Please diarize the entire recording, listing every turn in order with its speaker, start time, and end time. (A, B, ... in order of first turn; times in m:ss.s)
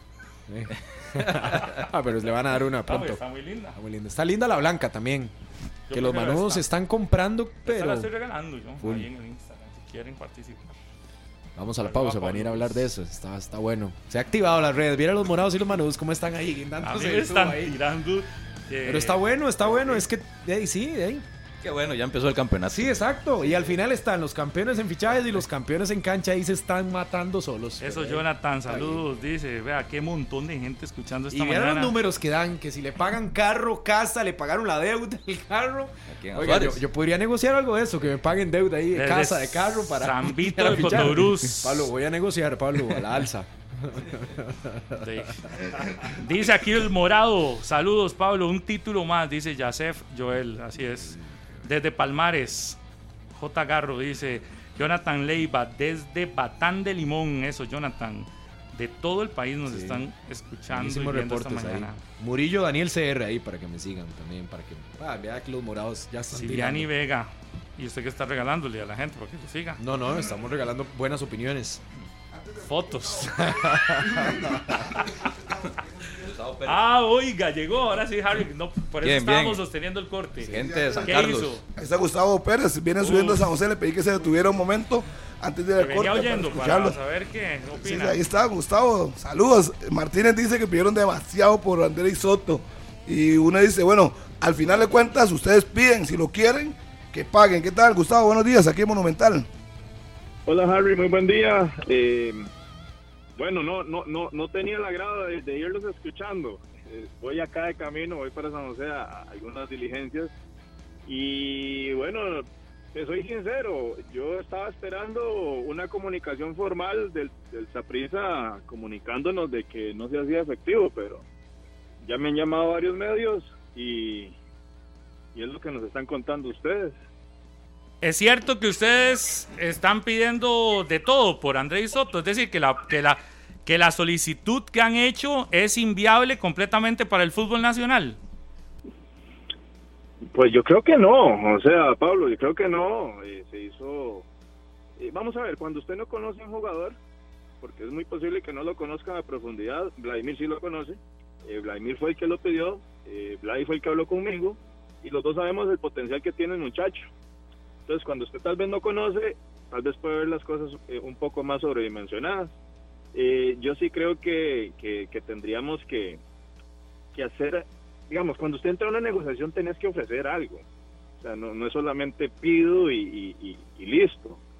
0:00.5-0:03.2 A
0:01.2-0:01.8 B
0:02.8-0:03.7 C
0:03.7-0:05.3 A
0:05.9-0:06.7 C
0:05.9-0:08.1 A
0:07.6-0:10.7 C
0:08.8-0:09.1 A
0:11.6-0:17.8 A
0:11.8-0:12.8 C
0:16.8-0:19.2 C
0:18.8-0:21.2 A
0:19.7-0:20.0 B
0:21.6-0:23.7 B
0:22.7-0:29.0 A
0:27.8-0:31.9 C
0:31.3-0:45.3 A
0:36.1-0:36.8 B
0:38.9-0:41.9 C
0:44.9-0:52.8 C
0:53.3-1:02.0 C
0:59.7-1:00.0 A
1:00.7-1:06.9 A
1:06.3-1:09.8 C
1:09.8-1:11.8 A
1:12.3-1:16.3 D
1:12.6-1:15.3 C
1:13.5-1:14.8 A
1:16.2-1:16.8 B
1:16.6-1:21.6 C
1:19.0-1:19.6 B
1:20.5-1:21.6 B
1:20.5-1:27.0 D
1:23.0-1:23.5 C
1:25.8-1:28.2 C
1:27.7-1:39.5 D
1:40.4-1:42.5 E
1:43.4-1:50.3 E
1:51.0-2:01.2 E
2:02.0-2:04.4 E
2:05.3-2:07.0 E
2:08.0-2:18.2 C
2:20.3-2:24.3 E
2:25.0-2:27.0 E
2:27.6-2:37.1 E
2:37.9-2:42.6 E
2:43.1-2:46.2 E
2:47.1-2:50.6 E
2:51.2-2:54.4 E